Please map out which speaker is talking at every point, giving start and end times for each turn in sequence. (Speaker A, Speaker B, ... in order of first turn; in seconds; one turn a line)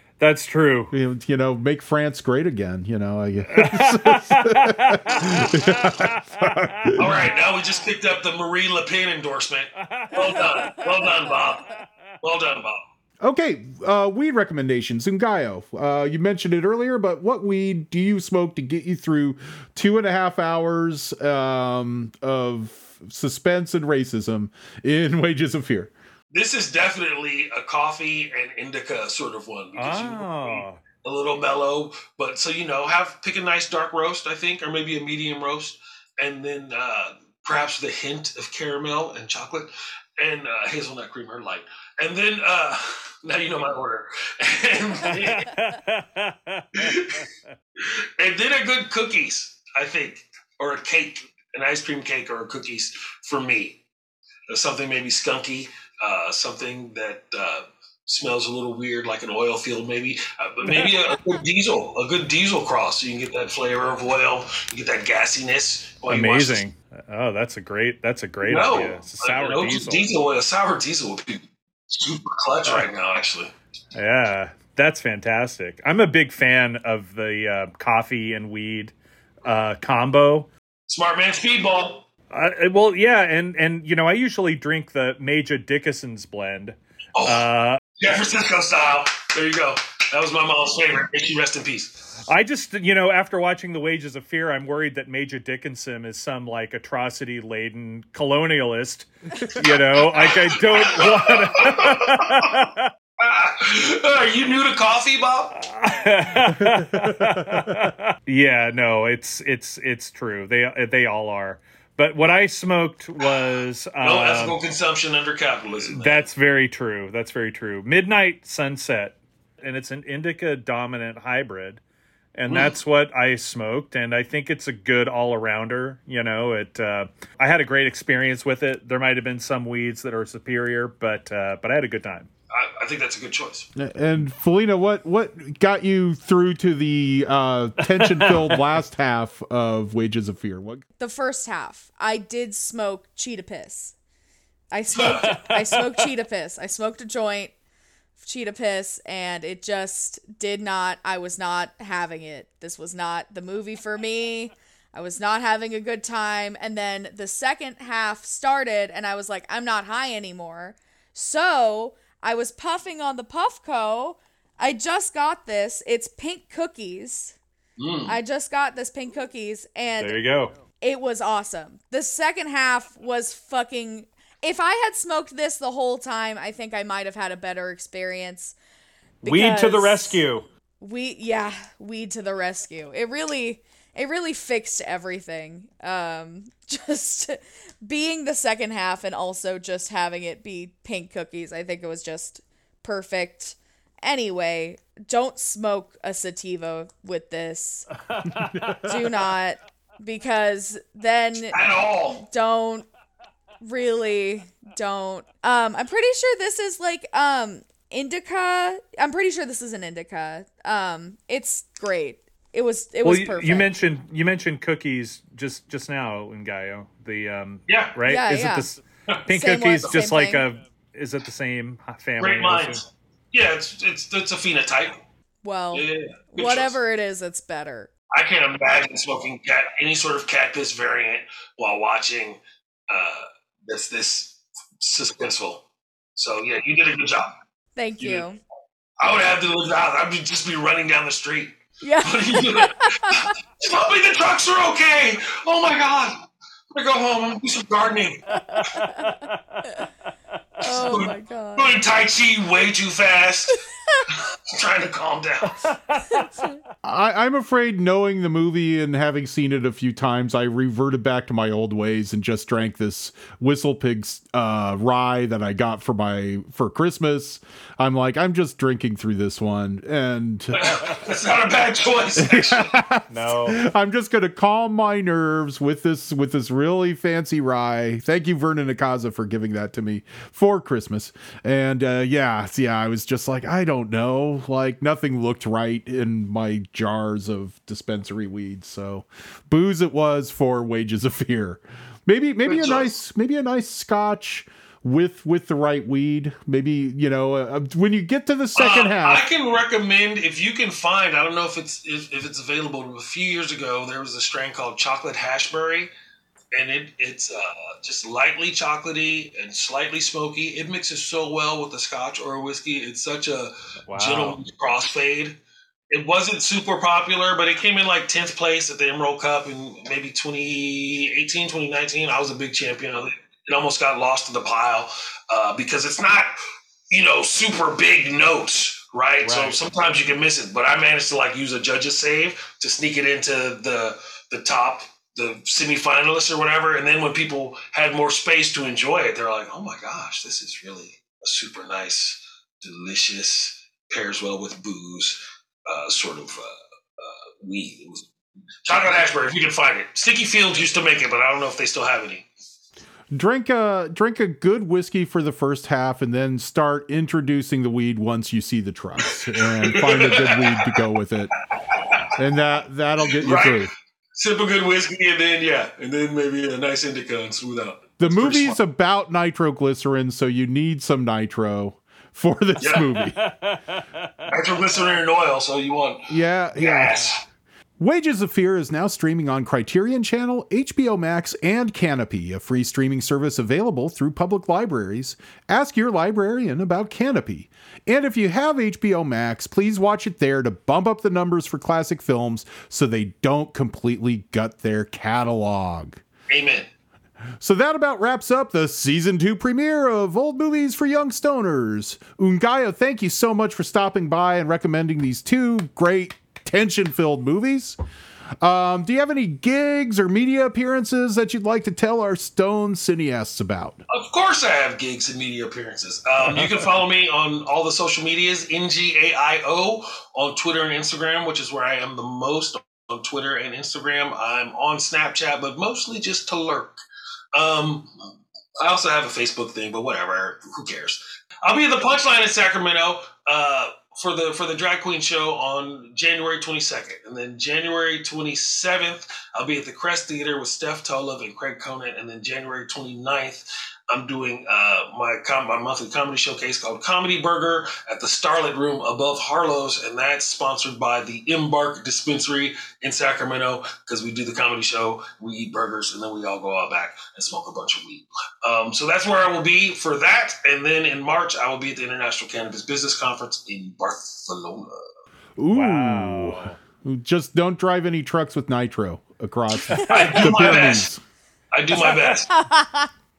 Speaker A: 0.2-0.9
Speaker B: 0.9-7.0
Speaker A: 3.5-7.0
Speaker C: 7.0-11.7
Speaker A: 9.8-10.8
Speaker C: 12.2-12.8
Speaker B: 13.2-25.9
Speaker C: 26.3-45.5
Speaker A: 29.8-30.8
Speaker A: 45.1-47.2
Speaker C: 46.8-47.2
Speaker C: 48.2-53.8
Speaker C: 54.5-66.6
Speaker A: 66.1-70.1
Speaker C: 68.4-73.5
Speaker A: 74.0-80.5
Speaker C: 80.9-82.1
Speaker A: 82.3-87.8
Speaker C: 87.2-87.5
Speaker C: 88.0-92.0
Speaker A: 92.3-102.9
Speaker C: 100.2-102.5
Speaker C: 103.2-105.6
Speaker A: 105.6-114.6
Speaker B: 106.6-107.7
Speaker C: 114.0-116.3
Speaker A: 115.9-121.8
Speaker A: 122.3-132.3
Speaker C: 122.5-122.8
Speaker C: 132.5-133.7
Speaker B: 133.8-140.8
Speaker A: 138.0-138.6
Speaker D: 141.0-143.9
Speaker D: 144.7-147.5
Speaker C: 145.0-145.2
Speaker A: 145.3-146.1
Speaker D: 148.2-167.3
Speaker C: 167.8-168.2
Speaker D: 168.1-170.2
Speaker A: 170.0-170.5
Speaker D: 170.7-178.6
Speaker A: 179.2-180.5
Speaker D: 179.2-180.2
Speaker D: 180.8-197.9
Speaker A: 198.2-198.9
Speaker D: 198.8-201.6
Speaker C: 201.5-202.2
Speaker D: 202.1-202.9
Speaker D: 203.6-213.7
Speaker A: 213.0-222.8
Speaker C: 217.7-218.0
Speaker D: 218.1-218.7
Speaker D: 219.3-220.5
Speaker C: 222.2-225.0
Speaker D: 225.4-227.9
Speaker C: 225.7-226.8
Speaker C: 228.1-235.7
Speaker C: 236.2-237.3
Speaker D: 237.8-238.4
Speaker C: 238.0-238.2
Speaker C: 239.0-246.2
Speaker D: 241.8-243.3
Speaker C: 246.7-248.2
Speaker D: 248.3-249.1
Speaker A: 249.3-249.6
Speaker D: 250.6-251.8
Speaker C: 250.7-253.6
Speaker C: 254.5-255.6
Speaker A: 255.6-256.3
Speaker D: 256.1-256.5
Speaker B: 256.8-270.7
Speaker C: 270.6-272.7
Speaker B: 272.2-299.2
Speaker A: 273.1-273.6
Speaker C: 292.5-292.9
Speaker C: 298.6-305.9
Speaker C: 306.5-315.4
Speaker A: 313.9-314.4
Speaker C: 315.9-326.4
Speaker C: 326.9-348.1
Speaker A: 329.2-329.6
Speaker C: 348.6-352.3
Speaker B: 353.1-361.3
Speaker C: 359.6-360.6
Speaker C: 361.8-362.1
Speaker B: 362.2-363.7
Speaker C: 363.2-368.6
Speaker B: 368.0-373.2
Speaker C: 372.6-372.9
Speaker A: 373.1-374.3
Speaker C: 374.3-377.2
Speaker B: 376.1-377.1
Speaker B: 377.8-396.0
Speaker C: 396.3-396.7
Speaker B: 397.4-407.8
Speaker B: 408.4-413.8
Speaker C: 413.9-426.8
Speaker C: 427.3-427.9
Speaker C: 428.6-464.9
Speaker B: 465.4-471.0
Speaker A: 465.5-466.6
Speaker C: 469.9-470.9
Speaker C: 471.5-472.3
Speaker D: 471.8-472.9